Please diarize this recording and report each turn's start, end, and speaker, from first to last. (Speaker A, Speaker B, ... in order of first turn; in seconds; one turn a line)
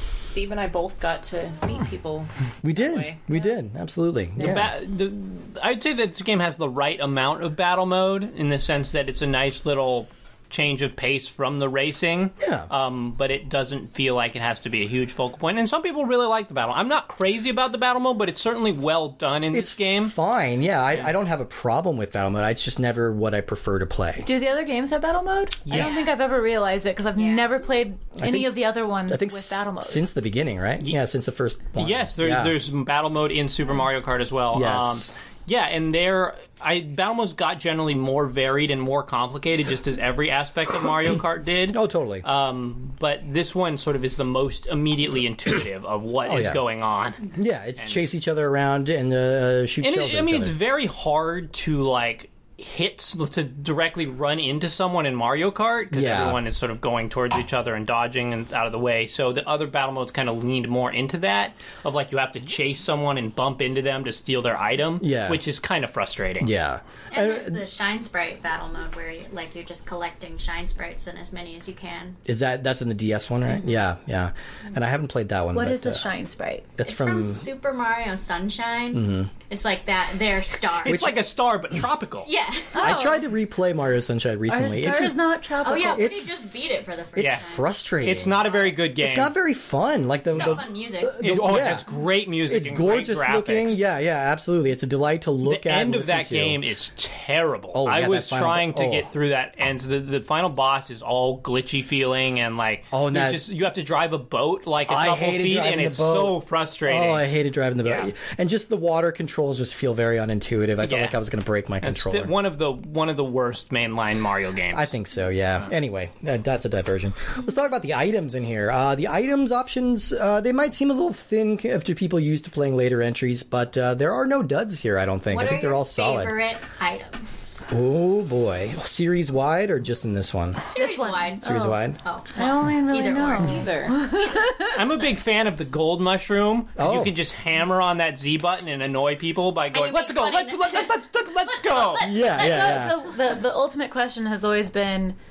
Speaker A: 0.2-3.4
Speaker B: 2.6-4.7
Speaker C: 4.4-20.1
Speaker B: 12.4-12.7
Speaker B: 19.5-24.3
Speaker D: 24.2-30.1
Speaker C: 25.6-26.0
Speaker E: 25.7-26.2
Speaker E: 27.1-27.5
Speaker B: 28.2-32.5
Speaker C: 31.8-47.2
Speaker B: 34.5-35.1
Speaker B: 41.7-42.3
Speaker B: 46.3-46.6
Speaker B: 47.3-50.5
Speaker C: 49.8-66.5
Speaker B: 55.9-56.4
Speaker B: 65.0-65.4
Speaker B: 66.4-67.6
Speaker E: 67.1-72.2
Speaker B: 72.2-76.0
Speaker D: 75.5-76.7
Speaker B: 76.8-77.5
Speaker E: 76.8-81.2
Speaker B: 78.9-79.3
Speaker C: 80.8-82.3
Speaker B: 80.8-81.2
Speaker E: 82.2-83.0
Speaker D: 82.7-83.2
Speaker B: 82.8-85.2
Speaker D: 84.5-86.2
Speaker E: 85.6-88.8
Speaker B: 85.8-86.4
Speaker B: 87.2-88.4
Speaker C: 87.2-87.4
Speaker C: 88.0-89.3
Speaker B: 89.0-91.8
Speaker E: 90.3-91.2
Speaker C: 90.4-90.6
Speaker C: 91.2-93.8
Speaker B: 92.5-96.6
Speaker C: 95.4-107.3
Speaker B: 97.7-99.1
Speaker B: 102.9-103.4
Speaker B: 104.9-112.3
Speaker C: 107.8-108.1
Speaker C: 110.8-111.2
Speaker C: 111.8-114.9
Speaker B: 114.7-126.4
Speaker E: 125.3-127.7
Speaker B: 127.7-130.6
Speaker D: 130.6-131.8
Speaker E: 130.7-134.8
Speaker B: 131.4-132.0
Speaker D: 132.4-134.8
Speaker A: 133.4-134.0
Speaker C: 134.7-142.2
Speaker B: 136.8-137.2
Speaker E: 139.7-142.9
Speaker B: 142.0-143.0
Speaker D: 142.3-145.2